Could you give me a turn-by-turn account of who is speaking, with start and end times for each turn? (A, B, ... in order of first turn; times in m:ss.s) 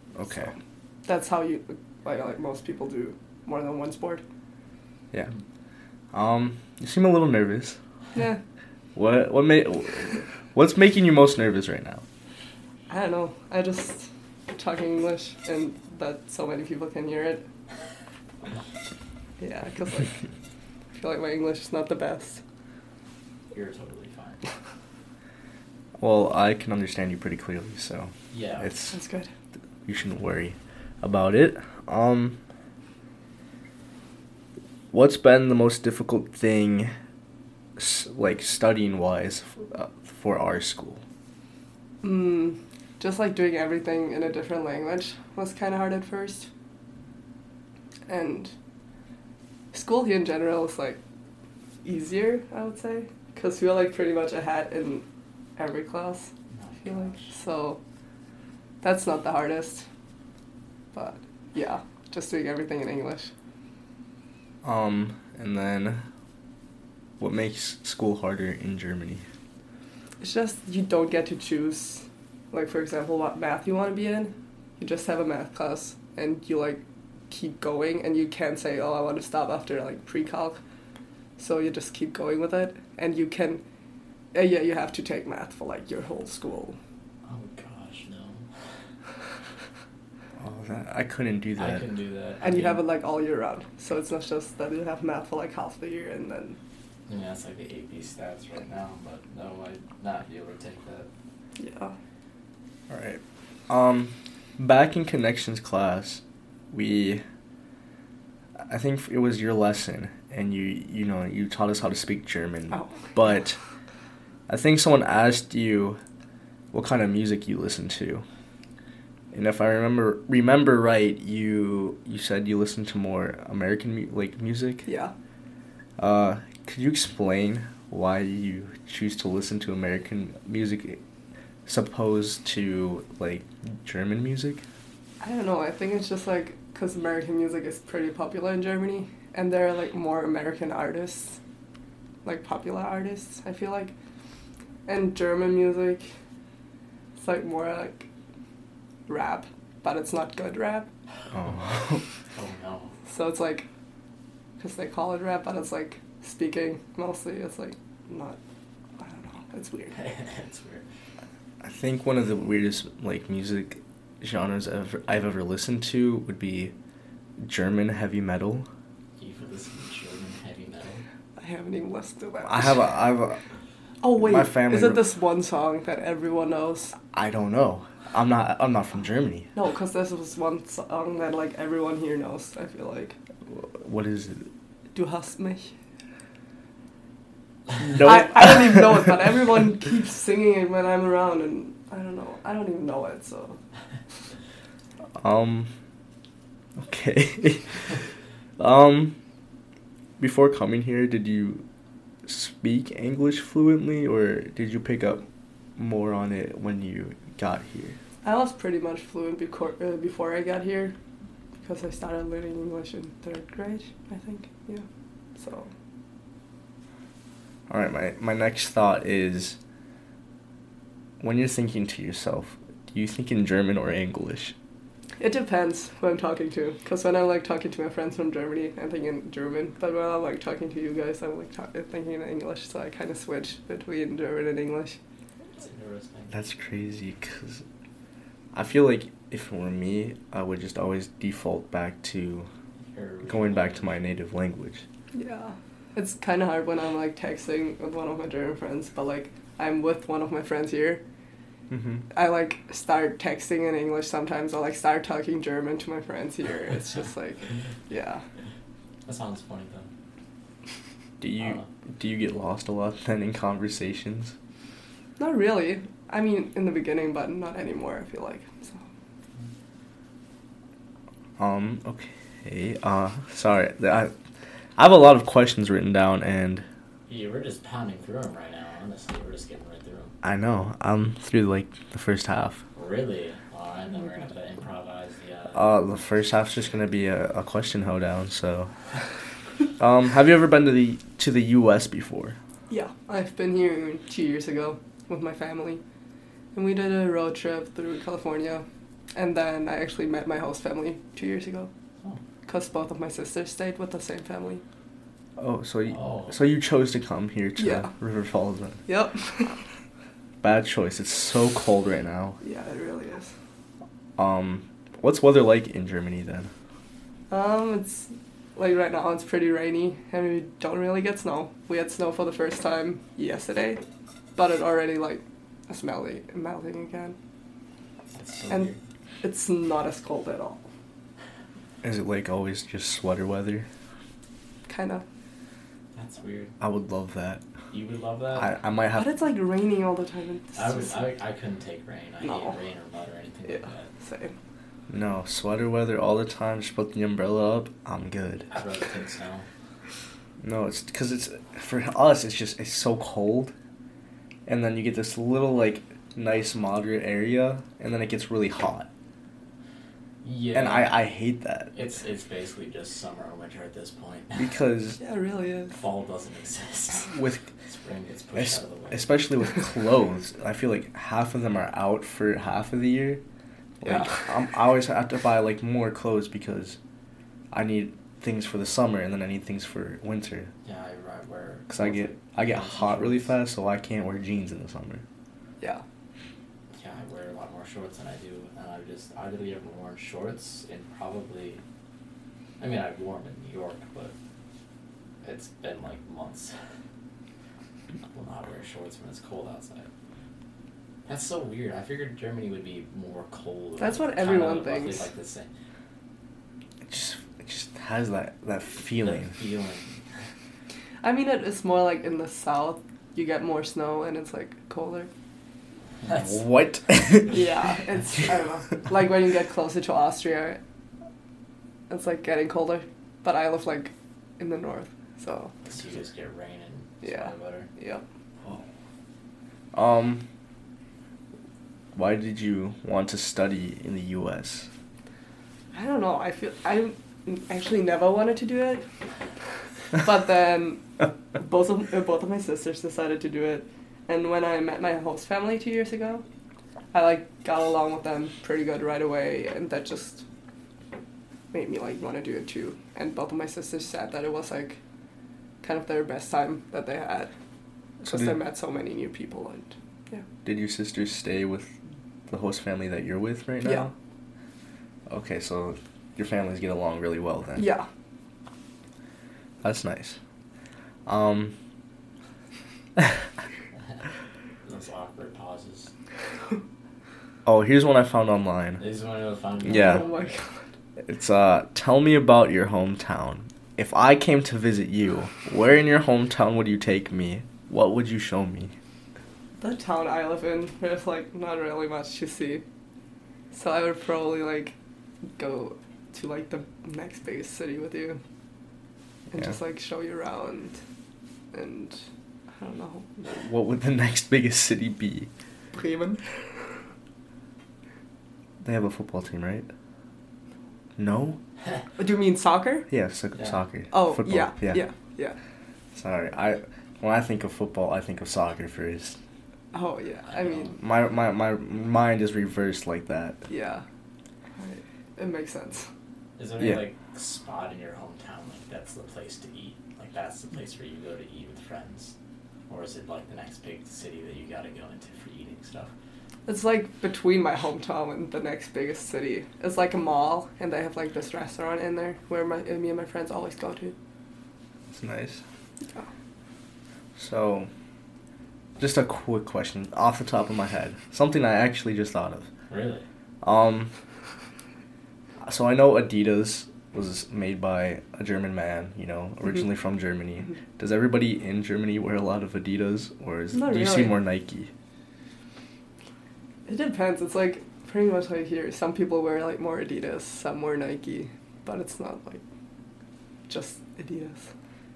0:00.2-0:00.5 A
0:01.0-0:04.2 B
0:06.1-0:07.8 A
0:08.2-0:08.4 B
0:09.0-0:12.0 A
0:12.9-0:17.5 B
0:19.4-0:20.2 B
0:21.0-0:22.4 B
0:23.5-0:24.4 C
0:26.0-0:29.0 A
0:28.3-0:28.7 C
0:28.9-0:29.3 B
0:29.8-0:32.4 A
0:34.9-0:36.9 A
0:37.8-0:41.0 A
0:42.0-0:46.5 B
0:48.1-0:48.5 B
0:49.7-0:51.0 B
0:51.8-0:55.0 B
0:55.6-0:56.3 B
0:56.5-0:57.3 C
0:56.8-0:57.8 B
0:58.8-0:59.8 B
1:00.9-1:03.3 B
1:04.6-1:06.0 A
1:07.2-1:09.2 A
1:10.2-1:20.6 B
1:21.4-1:23.6 B
1:24.3-1:26.8 B
1:27.2-1:28.5 C
1:30.4-1:31.9 A
1:31.6-1:32.8 C
1:32.4-1:36.6 B
1:37.1-1:41.1 C
1:41.6-1:42.0 B
1:42.9-1:47.2 A
1:48.7-1:53.6 A
1:52.7-1:53.4 B
1:54.5-1:56.0 A
1:56.7-1:58.2 A
1:59.3-2:04.9 A
2:04.8-2:05.1 B
2:06.0-2:11.0 A
2:11.7-2:14.6 A
2:15.2-2:21.4 B
2:22.2-2:23.9 B
2:24.9-2:26.1 B
2:27.2-2:28.1 B
2:29.1-2:30.9 B
2:31.3-2:32.0 A
2:32.4-2:32.9 C
2:33.1-2:33.7 B
2:34.6-2:38.4 B
2:39.0-2:40.0 B
2:40.0-2:40.8 C
2:41.6-2:46.7 A
2:47.4-2:48.7 A
2:49.2-2:51.0 C
2:51.4-2:52.9 B
2:52.4-2:53.4 A
2:54.0-2:57.0 B
2:54.2-2:55.0 A
2:57.1-2:59.5 A
2:59.6-3:03.2 B
3:03.5-3:04.5 A
3:05.0-3:05.7 B
3:07.8-3:08.8 A
3:08.0-3:13.6 B
3:15.2-3:15.7 A
3:16.8-3:17.9 A
3:18.6-3:19.2 A
3:20.2-3:21.6 A
3:22.3-3:25.2 A
3:25.8-3:28.0 A
3:28.2-3:31.0 B
3:31.6-3:34.8 B
3:35.4-3:35.7 B
3:37.7-3:39.6 A
3:41.2-3:44.5 A
3:45.2-3:55.0 B
3:55.6-3:56.3 C
3:56.3-3:57.6 A
3:58.5-4:02.5 A
4:02.9-4:04.0 C
4:03.2-4:04.8 A
4:05.1-4:11.0 B
4:11.7-4:12.1 A
4:12.1-4:18.2 B
4:19.1-4:19.9 C
4:21.2-4:24.3 A
4:25.2-4:28.8 B
4:31.4-4:34.1 A
4:34.8-4:36.6 A
4:37.1-4:40.1 C
4:40.2-4:42.6 A
4:42.8-4:45.6 C
4:45.5-4:48.7 A
4:49.8-4:52.4 A
4:52.7-4:55.8 B
4:56.5-5:01.7 B
5:02.5-5:04.6 B
5:05.4-5:08.8 A
5:05.9-5:06.3 C
5:07.6-5:07.9 B
5:08.9-5:09.6 B
5:10.4-5:12.4 A
5:12.4-5:13.3 B
5:14.2-5:16.5 A
5:17.3-5:23.8 B
5:24.4-5:27.2 B
5:28.1-5:28.8 C
5:28.5-5:30.6 B
5:31.8-5:33.7 A
5:34.7-5:35.0 B
5:35.9-5:36.5 C
5:36.6-5:37.4 A
5:37.7-5:38.6 C
5:38.3-5:39.1 A
5:39.0-5:41.1 B
5:40.6-5:43.9 C
5:42.2-5:42.6 B
5:43.4-5:44.4 B
5:44.9-5:48.5 A
5:48.5-5:49.5 C
5:50.4-5:53.5 A
5:54.5-5:58.9 A
6:00.2-6:01.0 C
6:00.5-6:01.8 A
6:01.7-6:04.6 C
6:04.4-6:05.0 A
6:05.0-6:05.8 B
6:05.8-6:09.2 C
6:07.1-6:07.5 A
6:08.4-6:13.2 A
6:13.8-6:16.8 A
6:13.8-6:14.3 B
6:17.5-6:20.5 A
6:20.6-6:23.4 C
6:21.7-6:25.0 A
6:26.7-6:31.6 C
6:32.6-6:34.1 C
6:35.2-6:36.5 C
6:38.1-6:39.9 C
6:41.1-6:45.5 C
6:43.8-6:45.1 B
6:46.9-6:49.4 A
6:49.0-6:50.0 C
6:51.0-6:55.1 B
6:56.0-6:56.4 C
6:56.1-6:57.5 A
6:57.3-7:00.6 B
7:01.9-7:05.5 B
7:05.6-7:07.7 C
7:07.0-7:08.0 B
7:09.7-7:10.2 A
7:12.0-7:14.7 A
7:15.7-7:18.8 B
7:20.0-7:20.8 B
7:21.4-7:26.2 B
7:26.9-7:30.2 B
7:31.5-7:34.8 B
7:35.6-7:37.3 B
7:38.0-7:38.4 A
7:38.0-7:40.3 B
7:40.4-7:41.8 A
7:42.3-7:43.9 A
7:43.6-7:43.9 B
7:45.1-7:47.7 A
7:47.6-7:47.9 B
7:49.6-7:50.2 A
7:51.1-7:51.5 A
7:54.6-7:55.9 C
7:57.5-7:58.8 A
7:58.8-8:00.4 C
7:59.6-8:00.1 A
7:59.7-8:00.5 B
8:01.0-8:08.7 A
8:09.6-8:12.6 B
8:13.5-8:14.7 B
8:15.4-8:18.2 B
8:19.3-8:20.8 B
8:21.5-8:22.0 B
8:22.5-8:23.2 B
8:23.2-8:25.3 A
8:25.7-8:26.6 B
8:28.6-8:29.7 A
8:31.0-8:31.4 A
8:32.0-8:32.9 B
8:32.9-8:34.8 A
8:33.9-8:35.4 B
8:35.9-8:39.2 A
8:39.7-8:40.8 B
8:40.3-8:40.8 C
8:40.8-8:43.4 A
8:43.5-8:43.8 B
8:44.6-8:45.9 B
8:46.4-8:52.1 C
8:46.6-8:46.8 A
8:52.7-8:55.9 C
8:56.5-9:04.0 B
9:04.9-9:05.4 A
9:07.2-9:07.7 A
9:08.8-9:12.5 A
9:12.7-9:13.1 C
9:13.4-9:13.9 A
9:15.4-9:24.7 A
9:23.5-9:24.2 B
9:26.7-9:32.4 B
9:33.5-9:34.5 B